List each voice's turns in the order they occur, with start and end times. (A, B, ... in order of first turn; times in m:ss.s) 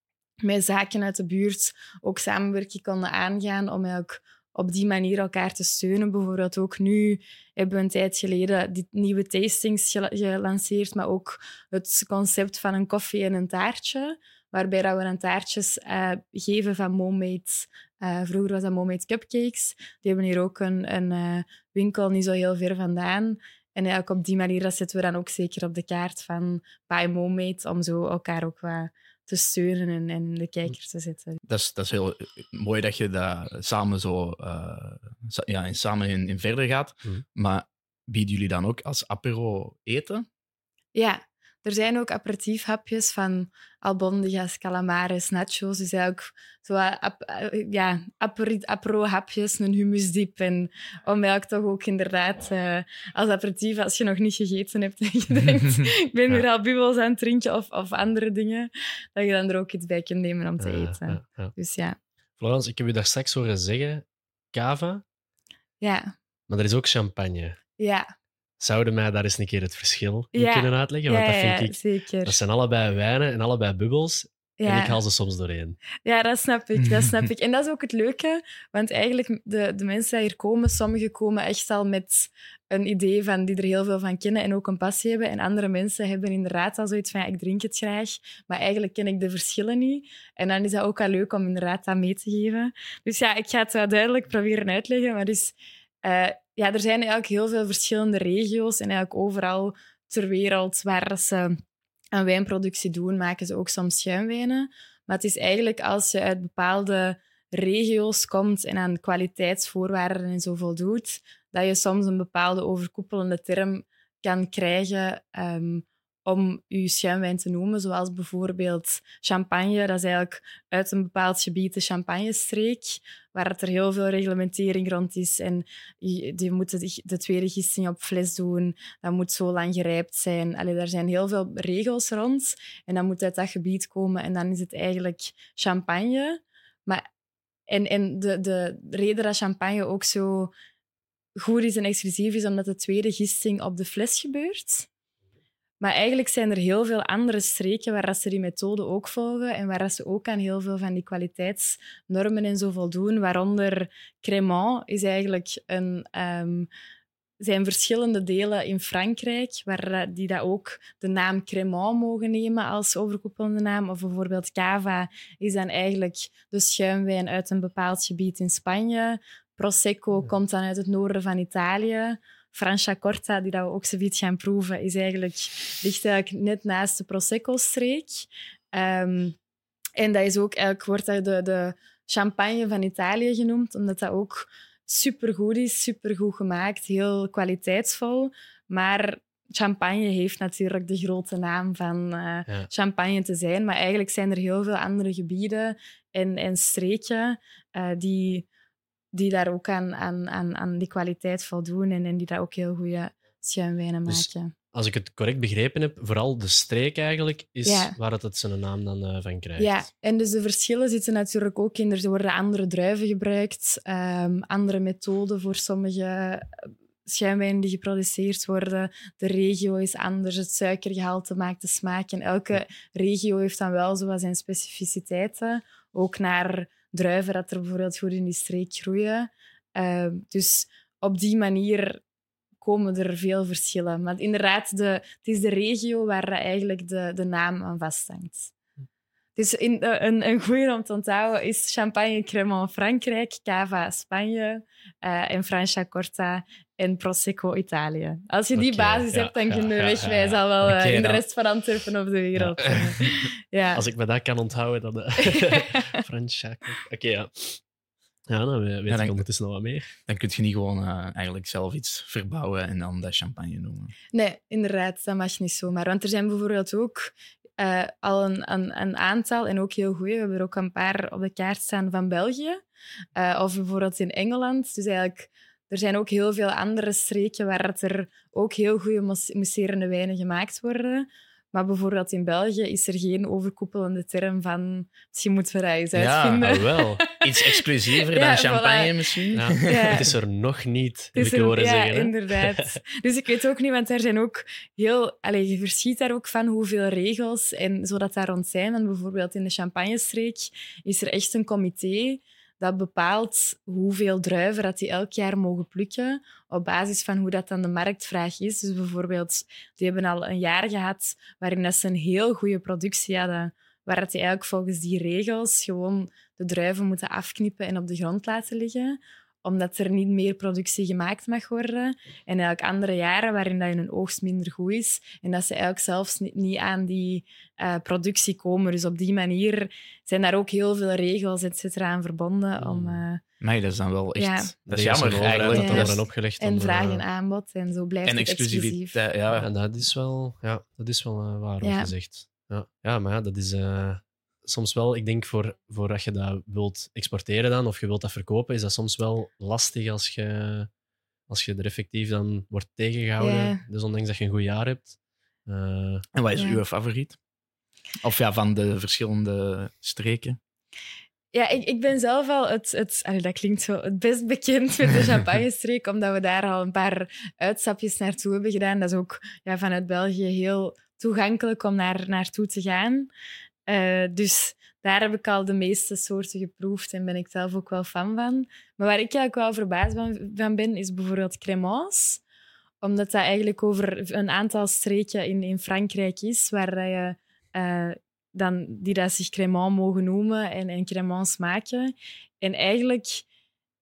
0:00.4-0:31.4 A
0:31.5-0:40.3 B
0:41.0-1:02.0 A
1:00.6-1:01.5 C
1:02.4-1:05.0 C
1:05.8-1:06.1 A
1:06.5-1:07.6 C
1:07.8-1:08.1 A
1:08.6-1:15.8 C
1:10.3-1:12.4 A
1:14.6-1:15.0 A
1:16.0-1:41.6 A
1:16.8-1:17.1 B
1:42.1-2:17.0 A
2:17.7-2:20.5 A
2:21.4-2:24.9 A
2:25.8-2:36.7 A
2:37.4-2:59.4 A
3:00.0-3:18.5 A
3:19.1-3:24.5 A
3:24.1-3:29.8 C
3:27.6-3:28.0 A
3:29.6-3:52.0 A
3:52.6-3:58.5 A
3:59.4-4:13.8 A
4:08.5-4:10.4 C
4:10.6-4:11.2 B
4:12.4-4:13.0 C
4:13.8-4:17.6 C
4:15.2-4:16.0 A
4:18.3-4:19.9 C
4:18.9-4:19.2 B
4:20.1-4:23.9 B
4:24.1-4:32.6 A
4:33.2-4:50.1 A
4:45.9-4:46.6 B
4:46.4-4:47.0 C
4:47.2-4:50.0 B
4:49.3-4:52.8 C
4:51.2-5:33.2 A
5:32.6-5:33.0 C
5:33.4-5:36.0 B
5:34.2-5:34.5 A
5:34.7-5:37.0 C
5:35.5-5:39.0 A
5:38.1-5:39.5 B
5:39.3-5:50.7 C
5:41.6-5:41.9 A
5:51.3-5:56.0 C
5:53.2-5:53.6 A
5:56.2-5:57.2 B
5:58.0-6:00.4 B
6:01.3-6:13.1 A
6:13.7-6:22.2 A
6:22.8-6:33.2 A